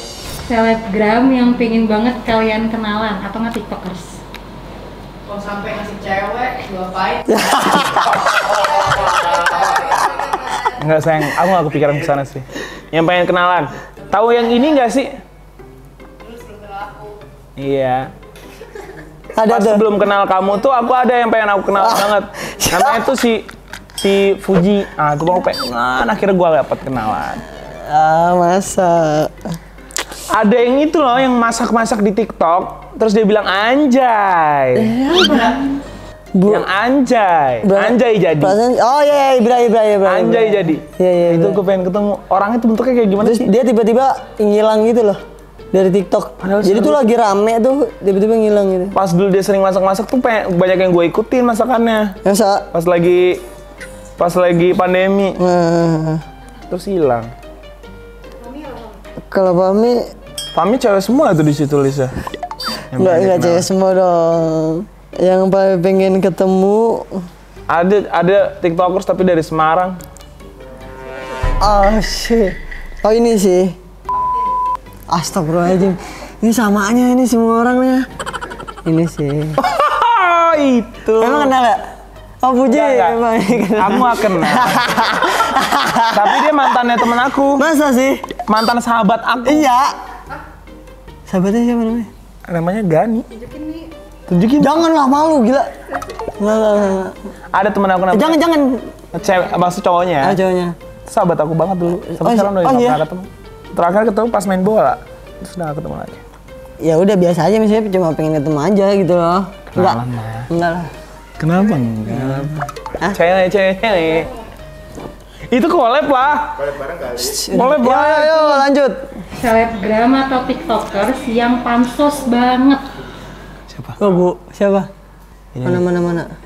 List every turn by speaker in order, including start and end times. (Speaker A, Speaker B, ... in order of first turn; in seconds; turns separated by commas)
Speaker A: 0.4-4.2, Speaker B: 5.2-7.3, Speaker C: 7.3-8.4, Speaker B: 8.4-11.0, Speaker D: 10.8-15.1, Speaker B: 16.2-17.2, Speaker D: 17.6-18.1, Speaker C: 19.3-19.8, Speaker D: 19.4-23.5, Speaker C: 21.8-23.1, Speaker D: 24.0-27.4, Speaker C: 27.6-29.6, Speaker D: 30.3-35.0, Speaker C: 34.7-35.6, Speaker C: 36.4-36.6, Speaker D: 36.5-38.6, Speaker C: 37.6-41.6, Speaker D: 40.0-43.5, Speaker C: 43.2-45.2, Speaker C: 45.7-49.0, Speaker D: 46.4-47.0, Speaker D: 48.9-52.2, Speaker C: 52.2-52.7, Speaker D: 52.7-53.4, Speaker D: 54.2-55.4, Speaker C: 55.4-56.2, Speaker D: 56.7-57.3, Speaker A: 58.3-59.0, Speaker C: 59.3-60.0, Speaker D: 60.5-62.2, Speaker D: 62.9-63.7, Speaker C: 62.9-67.2, Speaker D: 67.7-70.0, Speaker A: 70.9-71.6, Speaker C: 71.6-73.8, Speaker B: 74.1-74.5, Speaker C: 75.1-78.1, Speaker C: 78.8-79.6, Speaker D: 79.6-81.5, Speaker C: 81.2-81.8, Speaker C: 82.4-86.7, Speaker D: 82.7-83.2, Speaker D: 83.7-84.8, Speaker D: 86.1-87.7, Speaker C: 87.5-88.3, Speaker D: 88.5-89.7, Speaker C: 89.4-89.9, Speaker C: 91.3-92.1, Speaker D: 92.5-93.2, Speaker A: 93.3-93.9, Speaker D: 94.3-94.7, Speaker C: 94.6-97.2, Speaker D: 97.5-98.4, Speaker C: 98.1-99.1, Speaker D: 99.1-100.3, Speaker C: 100.2-100.8, Speaker D: 101.0-106.2, Speaker C: 102.1-103.0, Speaker C: 106.8-110.9, Speaker D: 109.7-110.5, Speaker D: 111.4-114.3, Speaker C: 112.1-113.2, Speaker D: 115.5-118.7, Speaker C: 117.1-119.0, Speaker A: 119.4-122.8, Speaker D: 123.7-124.0, Speaker C: 124.0-124.9, Speaker D: 125.5-125.8, Speaker C: 125.6-126.3